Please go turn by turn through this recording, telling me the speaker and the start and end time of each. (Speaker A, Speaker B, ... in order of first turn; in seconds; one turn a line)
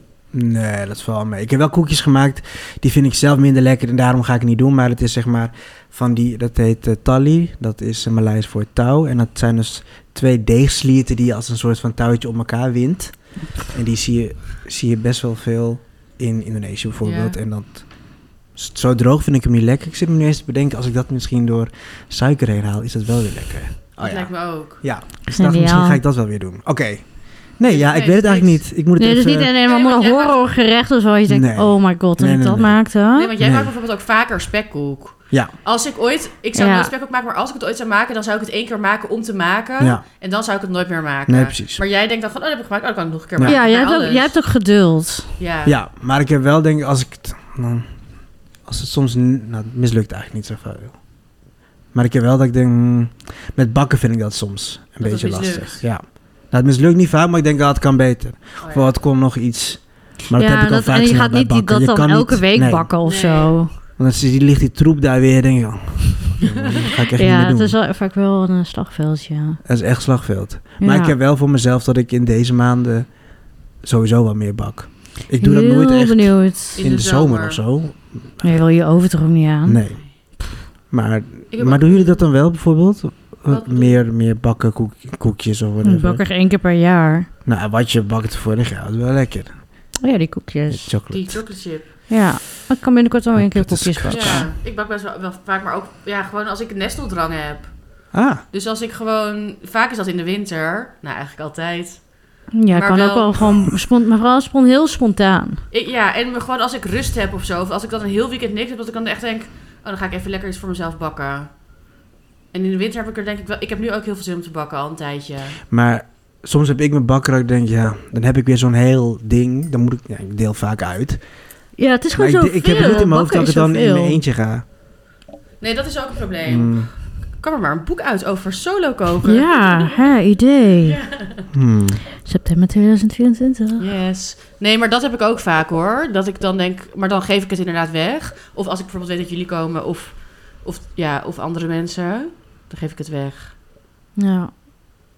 Speaker A: 0.3-29.5
Speaker B: 17.0-17.4
Speaker B: 24.0-24.8
Speaker C: 25.3-26.0
Speaker B: 27.6-28.6
Speaker C: 29.0-33.3
Speaker B: 29.6-30.5
Speaker A: 31.3-32.8
Speaker B: 33.1-44.4
Speaker A: 33.4-33.7
Speaker C: 36.5-36.9
Speaker A: 41.3-41.8
Speaker C: 43.4-45.3
Speaker B: 45.4-45.7
Speaker A: 45.6-48.0
Speaker A: 48.6-51.0
Speaker A: 51.9-62.9
Speaker B: 55.0-55.9
Speaker B: 58.6-58.9
Speaker C: 60.3-63.7
Speaker B: 63.0-63.6
Speaker A: 64.0-67.8
Speaker C: 67.2-69.6
Speaker A: 69.6-78.6
Speaker C: 70.8-71.1
Speaker C: 75.4-76.8
Speaker B: 76.8-77.6
Speaker C: 78.4-79.8
Speaker A: 79.6-80.0
Speaker A: 80.9-86.2
Speaker B: 81.5-82.2
Speaker B: 83.5-84.0
Speaker C: 85.8-87.3
Speaker A: 87.4-89.9
Speaker C: 90.0-90.9
Speaker A: 90.7-91.4
Speaker B: 91.1-91.9
Speaker C: 92.1-94.5
Speaker A: 93.3-94.5
Speaker B: 94.1-102.1
Speaker A: 98.1-98.4
Speaker C: 102.5-105.6
Speaker B: 102.7-103.6
Speaker B: 105.7-111.5
Speaker B: 112.5-115.6
Speaker A: 115.7-121.3
Speaker C: 121.8-124.2
Speaker A: 122.2-124.6
Speaker B: 122.7-123.0
Speaker B: 125.6-130.1
Speaker A: 126.5-126.9
Speaker C: 129.2-131.0
Speaker B: 130.8-131.5
Speaker A: 131.5-132.0
Speaker C: 132.2-133.9
Speaker B: 133.8-143.5
Speaker C: 144.2-144.5